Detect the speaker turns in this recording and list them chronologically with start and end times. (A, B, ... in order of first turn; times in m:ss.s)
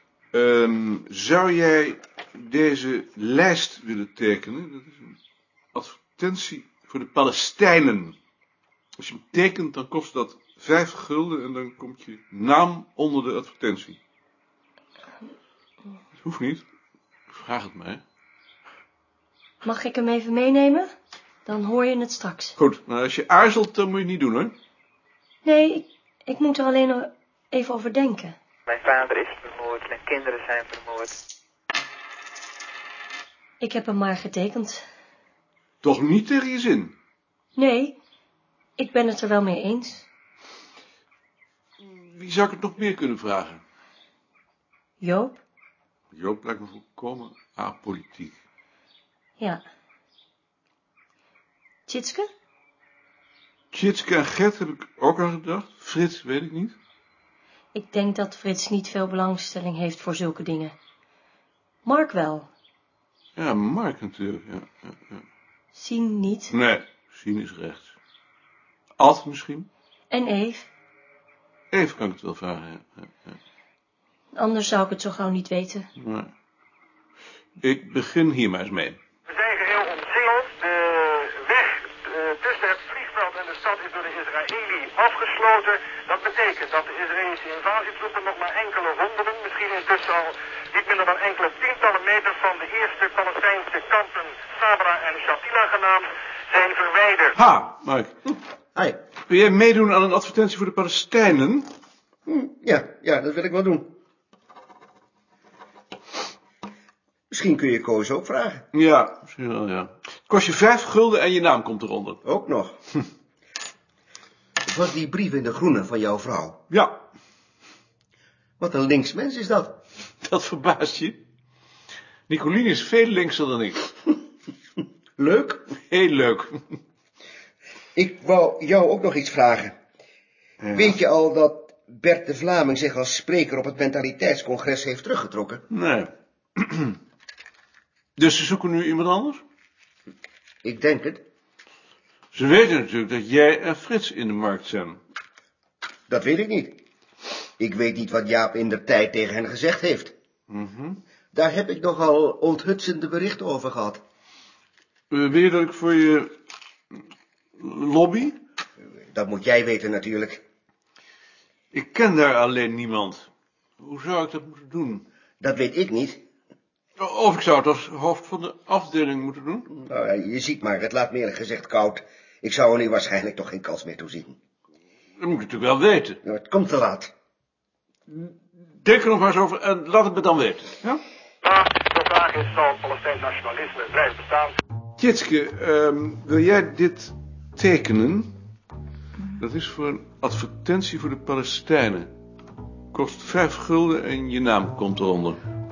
0:00.3-0:05.1 A
0:05.7-0:08.2 A
0:09.0-0:14.0 A
0:16.2-0:16.6 A
0:17.3-0:18.0 A
0:19.6-0:20.9 B
0:21.4-0:22.5 B
0:22.6-0:24.6 A
0:25.4-0:28.3 B
0:28.7-0:31.1 C
0:33.6-0:34.8 B
0:35.8-0:36.9 A
0:37.6-0:38.0 B
0:38.8-0:40.0 B
0:41.8-0:43.6 A
0:45.0-0:45.4 B
0:46.1-0:48.3 A
0:51.9-0:52.3 B
0:53.7-0:56.8 A
0:57.7-1:00.7 B
1:01.8-1:02.5 B
1:03.4-1:05.2 A
1:05.7-1:06.5 B
1:06.5-1:07.9 A
1:09.0-1:09.7 A
1:10.1-1:10.7 B
1:11.7-1:13.3 A
1:14.3-1:15.9 B
1:16.0-1:16.3 A
1:17.6-1:19.0 A
1:19.3-1:37.3 D
1:37.4-1:38.3 A
1:39.3-1:41.7 A
1:42.3-1:43.9 E
1:47.3-1:48.6 E
1:48.7-1:52.2 A
1:52.2-1:52.7 E
1:54.6-1:56.6 E
1:58.6-1:59.8 E
2:00.2-2:01.2 A
2:02.3-2:03.8 A
2:05.2-2:05.6 E
2:05.9-2:06.6 A
2:07.9-2:09.7 E
2:10.6-2:11.0 A
2:10.7-2:15.6 E
2:15.7-2:17.0 A
2:18.2-2:19.4 A
2:20.6-2:21.2 E
2:22.3-2:25.0 A
2:26.1-2:26.8 E
2:27.6-2:30.1 E
2:30.5-2:31.0 A
2:31.3-2:34.0 E
2:35.1-2:36.3 A
2:37.6-2:38.4 A
2:39.1-2:40.4 E
2:41.7-2:43.3 A
2:43.8-2:45.0 A
2:45.4-2:46.2 E
2:47.0-2:49.7 A
2:49.7-2:54.4 E
2:55.2-2:56.2 A
2:56.2-2:57.1 E
2:58.1-3:01.0 A
3:01.4-3:04.5 D
3:05.0-3:08.3 A
3:09.4-3:12.1 A
3:12.9-3:15.4 A